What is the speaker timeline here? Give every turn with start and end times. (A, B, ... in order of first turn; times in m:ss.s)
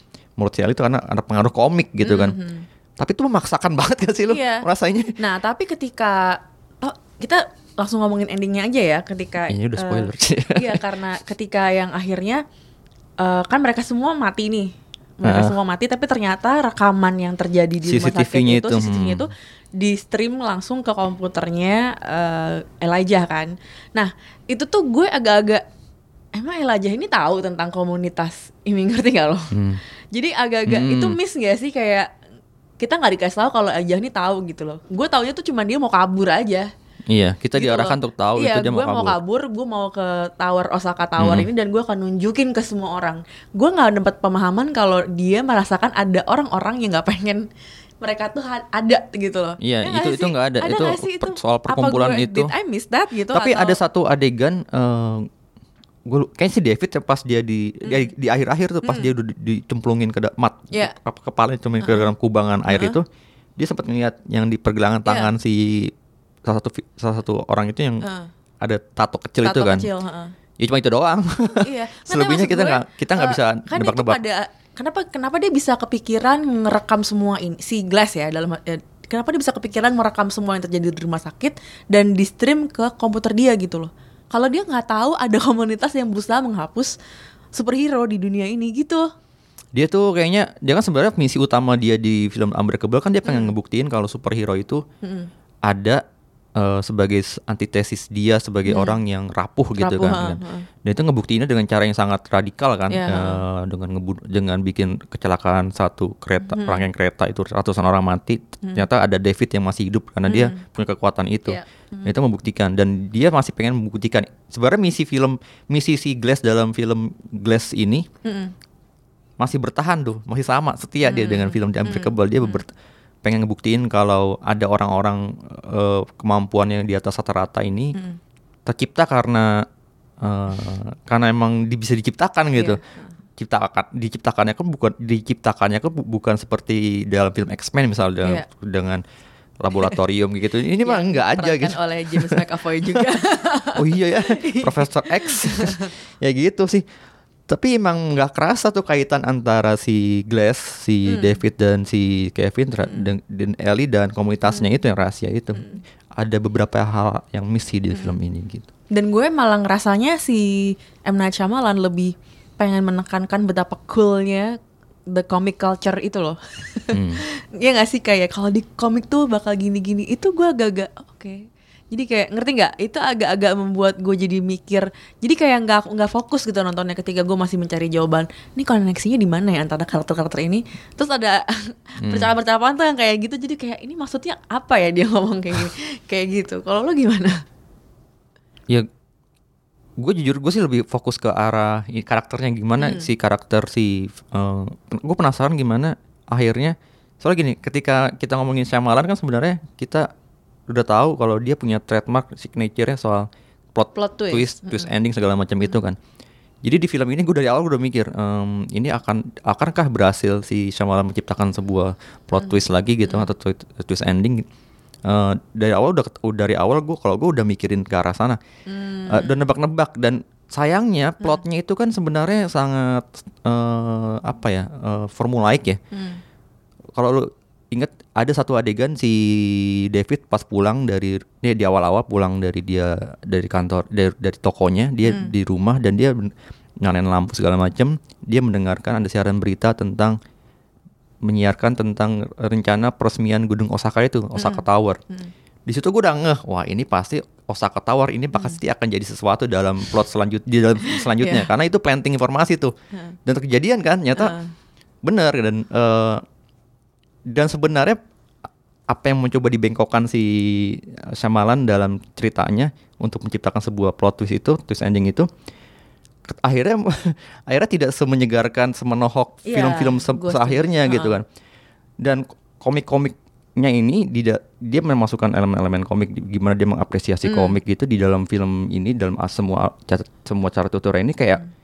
0:00.4-0:02.4 A
0:02.0-0:02.7 B
0:03.0-0:05.2 A
0:04.3-0:04.7 B
0:05.2-0:12.4 B
0:09.5-0:10.8 A
0:13.2-0:25.6 B
0:15.2-0:15.6 A
0:17.8-0:19.3 A
0:26.3-0:29.6 B
0:29.5-0:29.8 A
0:30.1-0:32.1 B
0:30.7-0:31.2 A
0:32.8-0:36.7 B
0:37.1-0:39.2 A
0:37.6-0:47.5 B
0:41.2-0:41.5 A
0:48.0-0:53.8 B
0:49.6-0:52.5 A
0:53.3-0:55.3 A
0:56.1-1:03.0 A
0:57.8-0:58.1 B
0:58.8-0:59.1 B
1:02.7-1:03.0 B
1:03.6-1:05.9 A
1:05.1-1:05.3 B
1:06.4-1:08.0 A
1:08.0-1:08.3 B
1:08.6-1:09.9 A
1:09.4-1:10.3 B
1:10.6-1:14.2 A
1:11.6-1:26.9 B
1:27.5-1:29.1 B
1:29.7-1:34.8 A
1:33.3-1:33.5 B
1:35.0-1:35.3 B
1:35.6-1:36.0 A
1:36.6-1:58.1 A
1:38.7-1:39.0 B
1:39.8-1:40.7 B
1:42.9-1:43.4 B
1:46.5-1:46.8 B
1:50.3-1:50.6 B
1:51.5-1:52.1 B
1:58.2-1:58.5 B
1:59.4-2:02.7 A
2:01.1-2:02.6 B
2:03.2-2:08.0 A
2:08.7-2:09.7 A
2:10.2-2:12.8 A
2:12.6-2:13.1 B
2:13.4-2:19.0 A
2:19.6-2:22.4 A
2:20.8-2:25.9 B
2:23.8-2:26.8 A
2:27.5-2:38.7 A
2:31.1-2:31.4 B
2:35.6-2:35.8 B
2:38.9-2:44.6 B
2:45.1-3:07.3 B
2:46.9-2:47.2 A
3:02.0-3:02.3 A
3:10.0-3:20.1 A
3:12.8-3:13.1 B
3:20.7-3:26.0 A
3:24.0-3:24.9 B
3:26.6-3:34.4 A
3:35.0-3:38.4 A
3:38.7-3:39.4 B
3:39.1-3:45.8 A
3:45.9-3:46.2 B
3:47.0-4:00.2 A
3:55.1-3:55.3 B
4:01.2-4:05.0 A
4:04.4-4:05.3 B
4:05.7-4:12.7 A
4:11.2-4:11.5 B
4:13.2-4:14.4 A
4:14.2-4:14.5 B
4:15.0-4:16.2 A
4:17.3-4:18.0 A
4:18.9-4:25.3 A
4:26.3-4:31.2 A
4:29.4-4:31.2 B
4:32.0-4:41.4 A
4:37.3-4:37.6 B